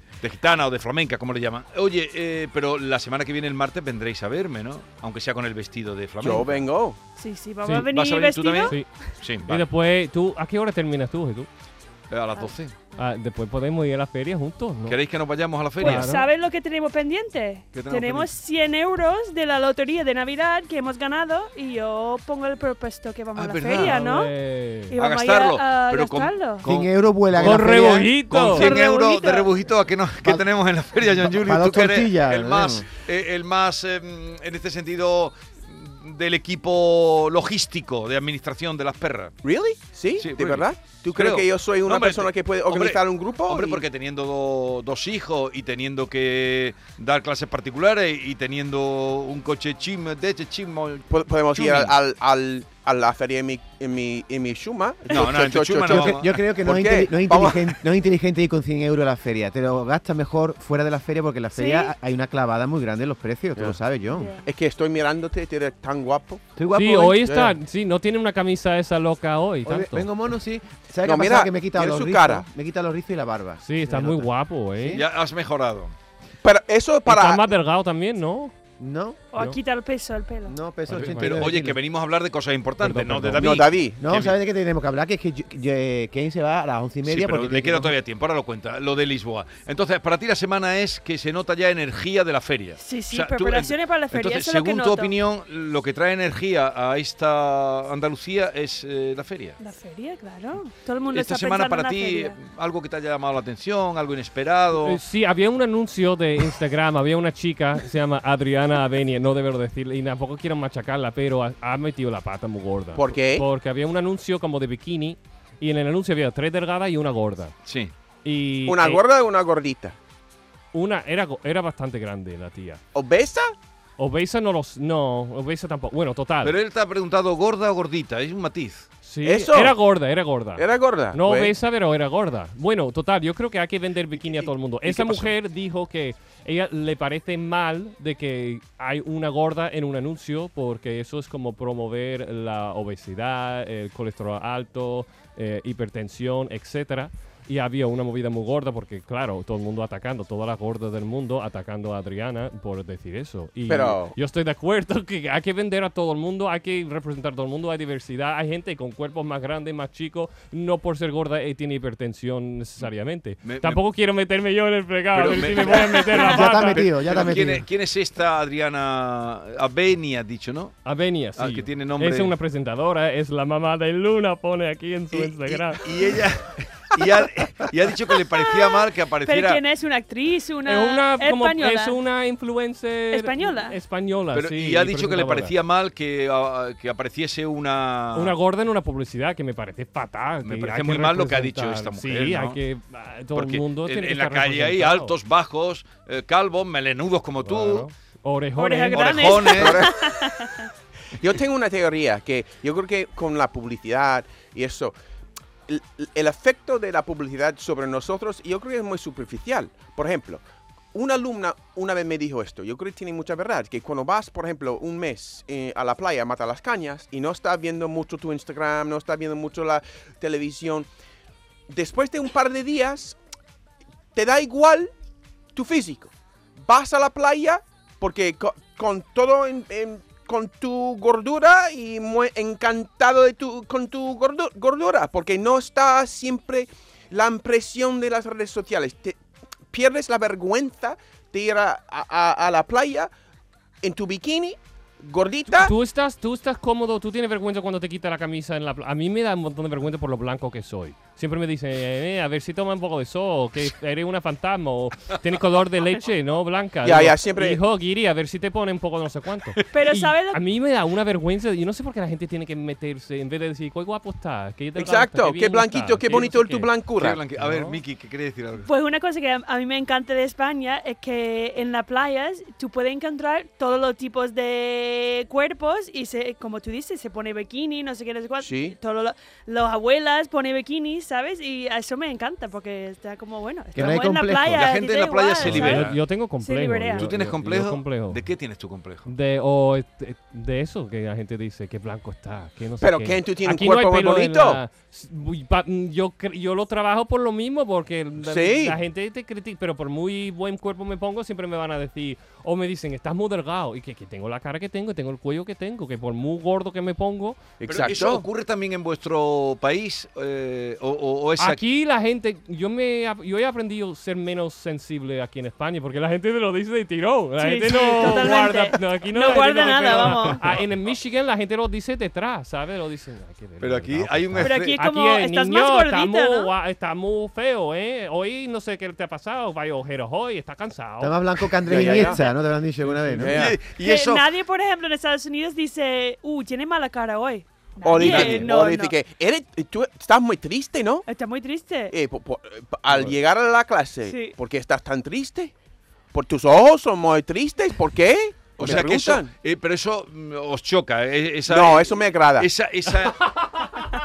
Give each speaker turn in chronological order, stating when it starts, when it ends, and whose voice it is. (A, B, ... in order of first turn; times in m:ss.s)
0:00.2-0:06.6 A
0:06.2-0:07.0 B
0:07.2-0:08.8 C
0:07.8-0:09.6 A
0:08.6-0:08.9 D
0:09.4-0:11.5 D
0:12.1-0:12.7 A
0:13.0-0:15.0 D
0:14.8-0:16.1 A
0:15.8-0:16.2 D
0:15.8-0:24.3 C
0:17.7-0:18.3 A
0:23.3-0:23.9 A
0:23.8-0:25.0 D
0:24.9-0:26.6 C
0:25.0-0:39.4 A
0:26.6-0:28.1 E
0:27.4-0:28.7 D
0:28.5-0:29.5 C
0:31.0-0:32.8 E
0:39.4-0:43.8 B
0:40.2-0:51.9 A
0:51.1-0:57.7 B
0:55.1-0:56.4 A
0:55.8-1:04.3 E
1:01.5-1:01.9 C
1:04.1-1:04.5 C
1:04.4-1:06.4 B
1:06.6-1:07.3 E
1:06.7-1:10.1 D
1:07.2-1:07.5 B
1:09.6-1:15.0 E
1:11.0-1:12.4 B
1:13.6-1:15.0 D
1:14.9-1:15.9 A
1:16.4-1:17.5 B
1:17.0-1:18.5 D
1:18.8-1:19.2 E
1:19.3-1:20.6 C
1:20.5-1:21.7 E
1:20.9-1:21.8 D
1:21.2-1:24.4 A
1:22.8-1:23.5 D
1:23.4-1:24.0 B
1:24.0-1:27.9 E
1:27.0-1:39.6 A
1:32.8-1:35.1 C
1:39.6-1:42.4 C
1:41.1-1:45.0 A
1:44.8-1:57.5 D
1:52.9-1:53.4 B
1:57.6-1:57.9 A
1:58.2-1:59.0 D
1:58.6-2:00.0 B
2:00.7-2:02.8 D
2:02.9-2:03.5 B
2:04.0-2:06.5 D
2:06.4-2:08.9 A
2:09.0-2:46.9 D
2:09.2-2:09.7 B
2:10.6-2:11.5 B
2:14.3-2:15.1 A
2:33.7-2:34.2 B
2:43.4-2:43.8 A
2:45.1-2:50.8 A
2:46.1-2:47.6 E
2:50.8-2:55.8 D
2:51.4-2:52.3 A
2:55.1-2:59.6 A
2:58.6-3:02.0 C
3:00.6-3:05.5 D
3:03.1-3:03.8 C
3:04.3-3:08.3 A
3:08.1-3:15.1 D
3:10.4-3:12.6 A
3:13.3-3:17.9 A
3:17.4-3:19.4 D
3:18.6-3:20.7 C
3:18.9-3:19.9 A
3:19.5-3:20.0 B
3:21.1-3:25.0 B
3:25.7-3:30.4 B
3:30.9-3:40.9 B
3:41.7-3:43.2 B
3:44.1-3:44.9 B
3:45.5-4:03.1 B
4:03.8-4:05.7 B
4:05.6-4:26.7 D
4:16.8-4:17.6 B
4:19.7-4:20.4 C
4:24.8-4:27.2 B
4:27.0-4:28.7 A
4:27.4-4:27.8 D
4:28.6-4:47.1 C
4:38.4-4:38.8 B
4:43.7-4:44.6 E
4:44.5-4:46.0 A
4:45.4-4:48.2 D
4:46.9-4:49.1 A
4:49.0-5:07.4 D
4:52.8-4:54.6 B
4:58.2-4:58.8 B
5:07.6-5:08.2 B
5:07.6-5:11.6 A
5:11.4-5:31.2 D
5:17.4-5:20.6 C
5:23.6-5:24.8 A
5:24.4-5:26.5 C
5:31.0-5:33.5 E
5:31.6-5:32.2 B
5:31.9-5:32.1 C
5:32.8-5:33.3 D
5:33.2-5:33.6 B
5:33.2-5:34.3 A
5:33.7-5:39.0 C
5:37.8-5:41.0 B
5:38.0-5:38.5 A
5:41.0-5:41.9 C
5:41.9-5:45.5 B
5:44.0-5:44.4 C
5:46.1-5:49.3 B
5:48.6-5:53.3 A
5:51.5-5:52.5 B
5:53.3-5:53.8 D